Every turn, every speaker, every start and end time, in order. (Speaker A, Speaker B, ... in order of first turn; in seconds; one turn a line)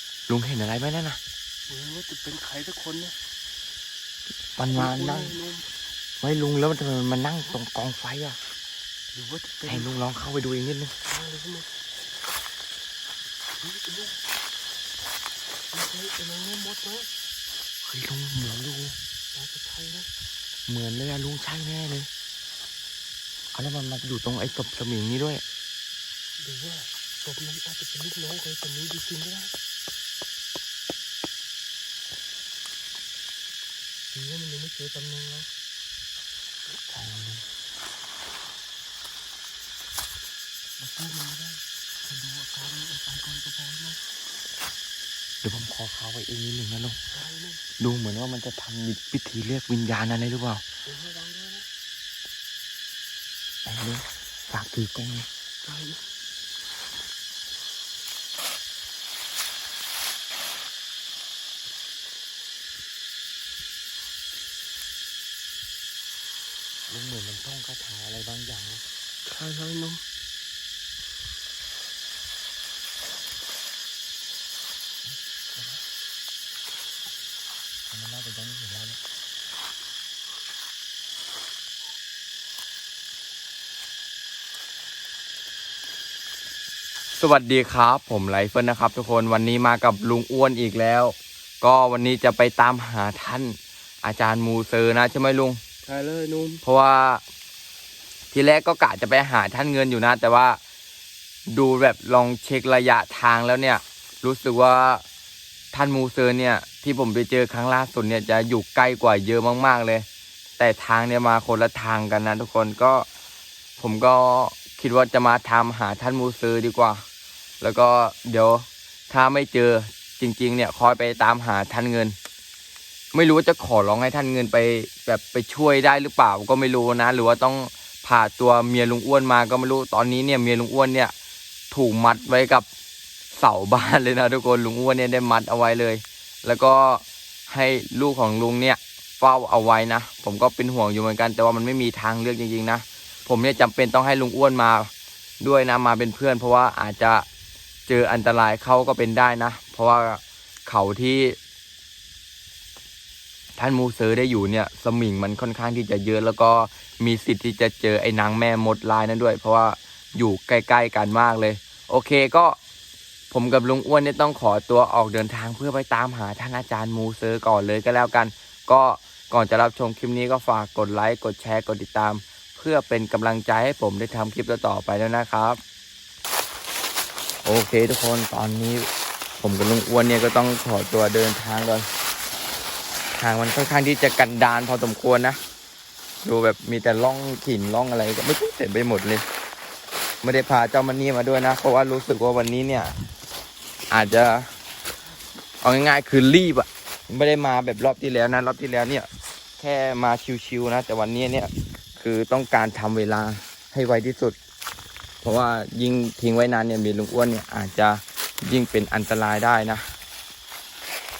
Speaker A: 0.3-1.2
Speaker B: 1.7-3.2
Speaker A: 4.5-5.3
Speaker B: 4.7-5.7
Speaker A: 6.2-8.4
Speaker B: 9.1-9.9
Speaker A: 9.7-10.9
Speaker B: 11.0-11.7
Speaker B: 13.6-14.2
Speaker B: 15.7-17.1
Speaker A: 17.8-19.0
Speaker B: 19.3-20.1
Speaker A: 20.7-22.1
Speaker A: 23.5-25.4
Speaker B: 26.4-29.5
Speaker B: 34.1-35.5
Speaker A: 36.9-37.4
Speaker B: 40.8-44.0
Speaker A: 45.4-47.0
Speaker B: 47.1-47.6
Speaker A: 47.8-50.6
Speaker B: 50.8-51.7
Speaker A: 53.6-55.3
Speaker B: 55.6-56.0
Speaker A: 66.9-68.8
Speaker B: 69.2-70.0
Speaker A: 75.0-75.8
Speaker A: 77.9-79.0
Speaker A: 87.1-95.6
Speaker B: 95.8-96.6
Speaker A: 96.6-97.2
Speaker A: 98.3-100.6
Speaker A: 101.5-105.0
Speaker A: 105.7-110.0
Speaker A: 110.6-113.1
Speaker A: 113.8-117.0
Speaker A: 117.6-122.2
Speaker A: 123.1-131.1
Speaker A: 131.7-132.7
Speaker A: 133.3-147.2
Speaker A: 147.9-151.4
Speaker A: 153.6-162.6
Speaker A: 163.3-175.6
Speaker A: 177.4-178.9
Speaker A: 179.4-181.9
Speaker A: 183.1-185.4
Speaker A: 186.2-189.2
Speaker A: 190.2-192.9
Speaker A: 193.9-194.5
Speaker A: 195.6-199.1
Speaker A: 199.6-204.4
Speaker A: 205.2-209.8